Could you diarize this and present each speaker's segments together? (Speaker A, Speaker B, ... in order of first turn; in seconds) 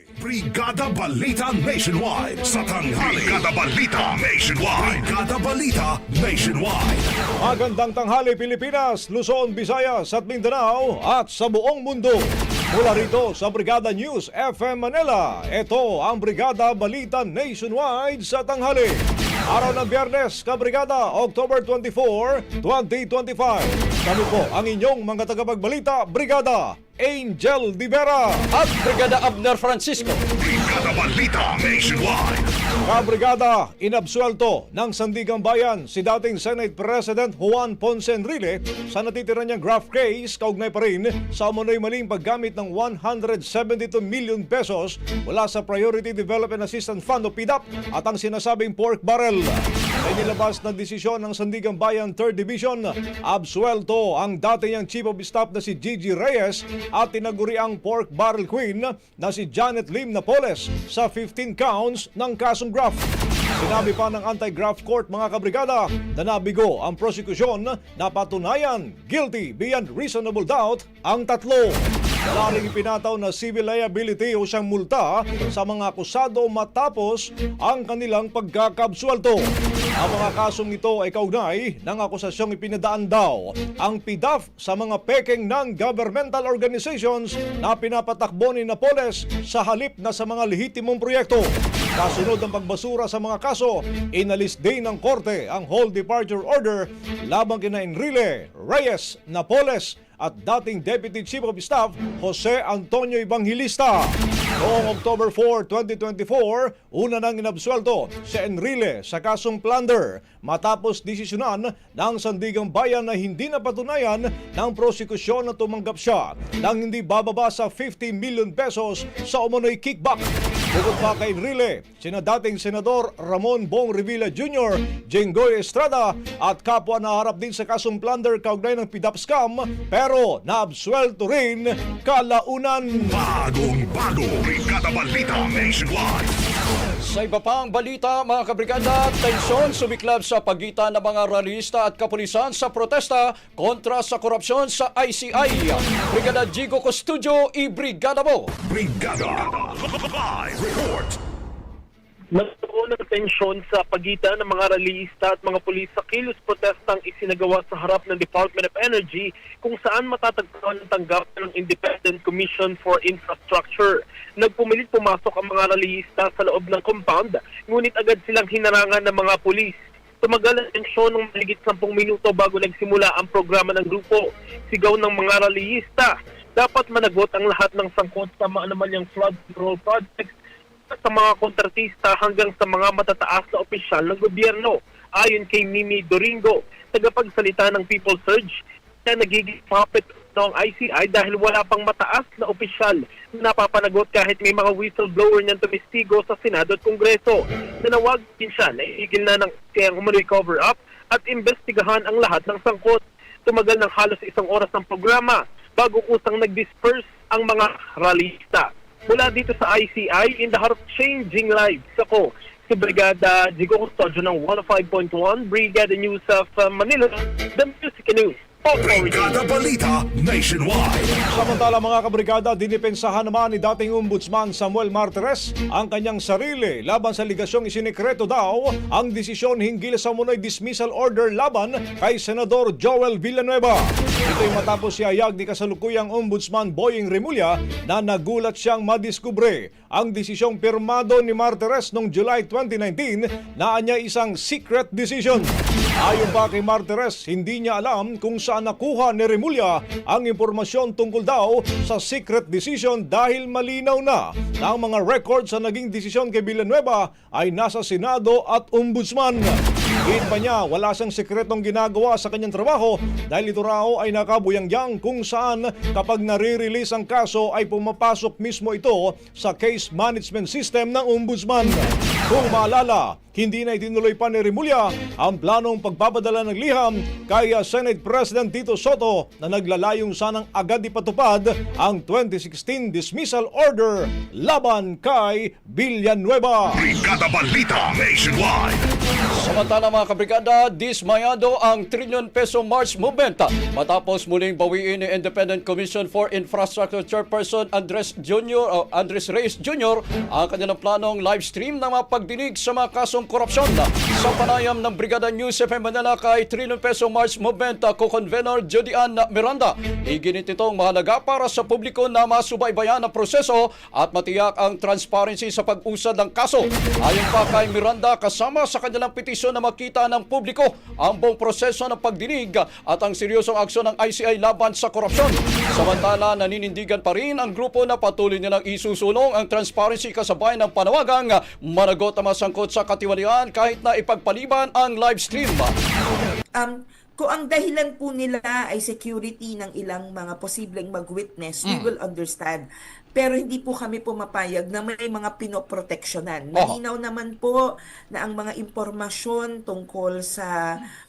Speaker A: 0.2-7.1, 30.4-32.5, 133.1-136.4, 148.6-151.2, 218.7-221.2, 286.7-288.8
Speaker B: 7.4-28.4, 32.8-63.0, 63.6-79.5, 80.0-133.1, 221.3-245.5, 246.0-286.8
Speaker C: 28.5-30.2, 137.0-148.5, 289.3-335.7
Speaker D: 152.3-180.3, 180.9-219.4
Speaker E: 336.6-342.6, 343.1-347.6, 348.1-350.8